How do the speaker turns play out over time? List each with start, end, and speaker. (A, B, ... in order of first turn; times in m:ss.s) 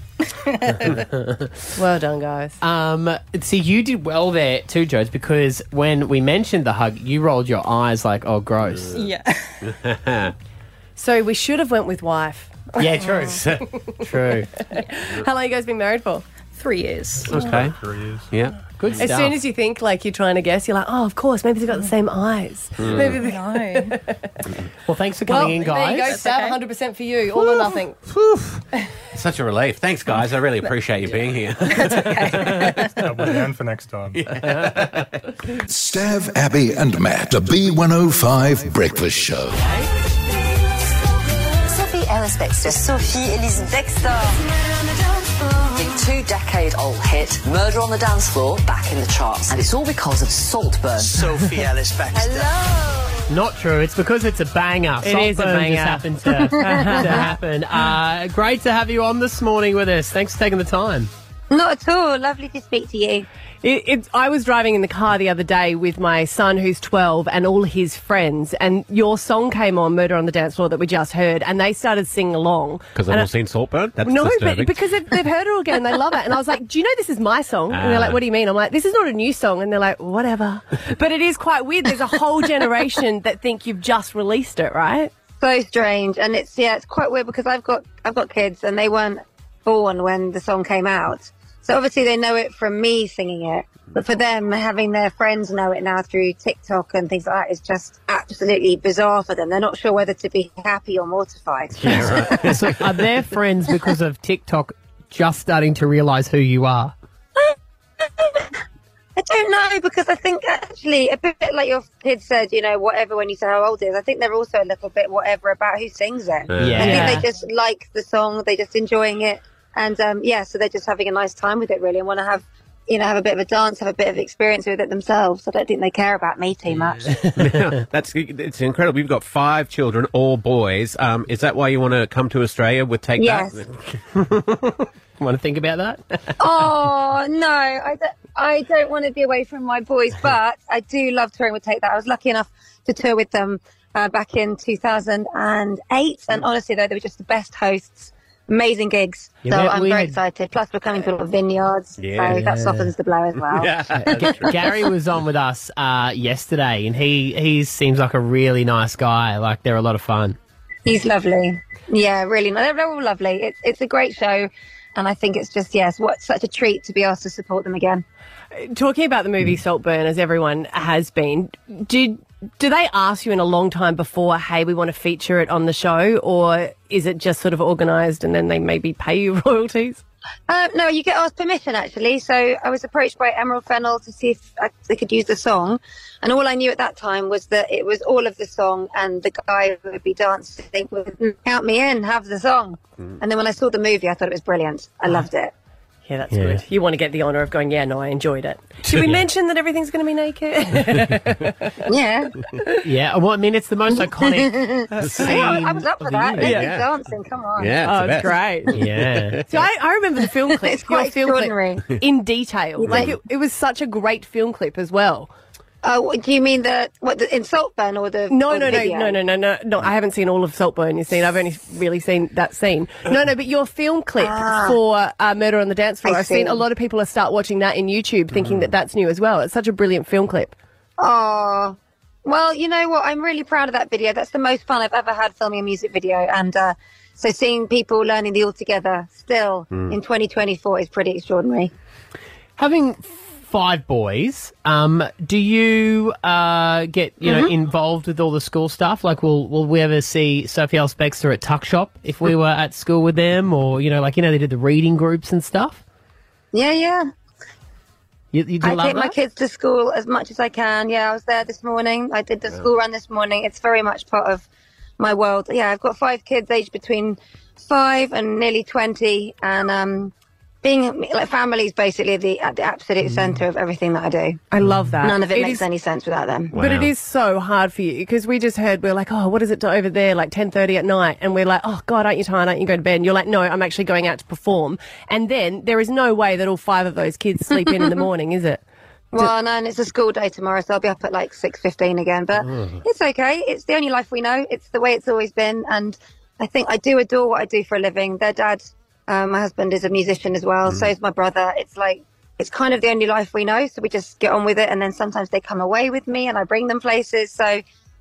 0:00.3-0:01.0 A
0:01.7-0:02.6 B
0:02.6-0:08.9 C
0:08.7-0:09.1 D
0:08.9-0:09.6 A
0:09.6-0:10.3 D
0:11.0-0:13.4 B
0:12.8-0:14.5 C
0:13.2-0:13.6 D
0:14.7-0:16.2 B
0:16.5-0:17.4 A
0:17.2-0:18.3 E
0:17.3-0:17.8 D
0:18.3-0:19.0 D
0:18.8-0:19.4 C
0:19.0-0:24.3 B
0:22.8-0:23.2 D
0:23.1-0:24.0 A
0:24.8-0:26.2 C
0:25.3-0:28.0 B
0:26.0-0:26.6 A
0:27.4-0:27.8 A
0:28.1-0:28.6 C
0:29.1-0:32.6 D
0:31.7-0:32.9 A
0:33.0-0:34.2 E
0:34.1-0:35.1 D
0:35.6-0:39.6 F
0:41.6-0:44.4 G
0:45.5-0:51.6 G
0:52.1-0:52.5 G
0:53.3-1:01.1 C
0:55.0-0:57.3 B
0:56.6-0:57.0 H
1:01.5-1:03.2 H
1:03.6-1:13.3 B
1:12.9-1:14.8 D
1:14.0-1:25.1 B
1:17.7-1:18.2 D
1:25.4-1:42.6 H
1:41.8-1:43.0 D
1:41.8-1:46.9 C
1:47.4-1:48.5 H
1:49.2-2:07.2 H
1:56.5-1:57.2 D
1:56.5-1:57.2 C
2:07.1-2:07.7 C
2:07.1-2:14.4 D
2:13.2-2:13.6 H
2:15.2-2:16.4 C
2:16.4-2:34.5 H
2:29.4-2:30.2 C
2:32.0-2:32.5 D
2:32.3-2:32.9 C
2:33.4-2:34.8 D
2:33.9-2:40.4 C
2:40.8-2:48.0 H
2:48.5-3:00.0 B
3:00.5-3:15.5 H
3:16.0-3:21.8 B
3:16.3-3:16.6 C
3:21.8-3:22.3 H
3:22.8-3:26.7 C
3:23.9-3:28.0 H
3:24.9-3:25.6 D
3:26.4-3:26.7 B
3:26.4-3:26.9 D
3:27.6-3:29.7 D
3:27.8-3:28.8 B
3:28.7-3:29.4 C
3:29.5-3:35.3 B
3:30.5-3:31.9 H
3:32.8-3:33.1 H
3:32.9-3:33.1 D
3:35.8-3:39.2 H
3:38.3-3:50.6 B
3:44.2-3:44.8 H
3:46.0-3:46.6 H
3:48.3-3:48.6 D
3:51.0-4:01.7 H
3:59.7-4:00.0 D
4:02.6-4:15.8 C
4:07.2-4:07.5 H
4:16.5-4:17.1 H
4:18.3-4:19.2 C
4:18.6-4:24.4 H
4:25.0-4:34.4 H
4:34.5-4:35.6 B
4:35.0-4:36.5 H
4:36.5-4:36.9 D
4:36.5-4:48.6 B
4:49.1-5:07.6 H
5:00.6-5:00.9 D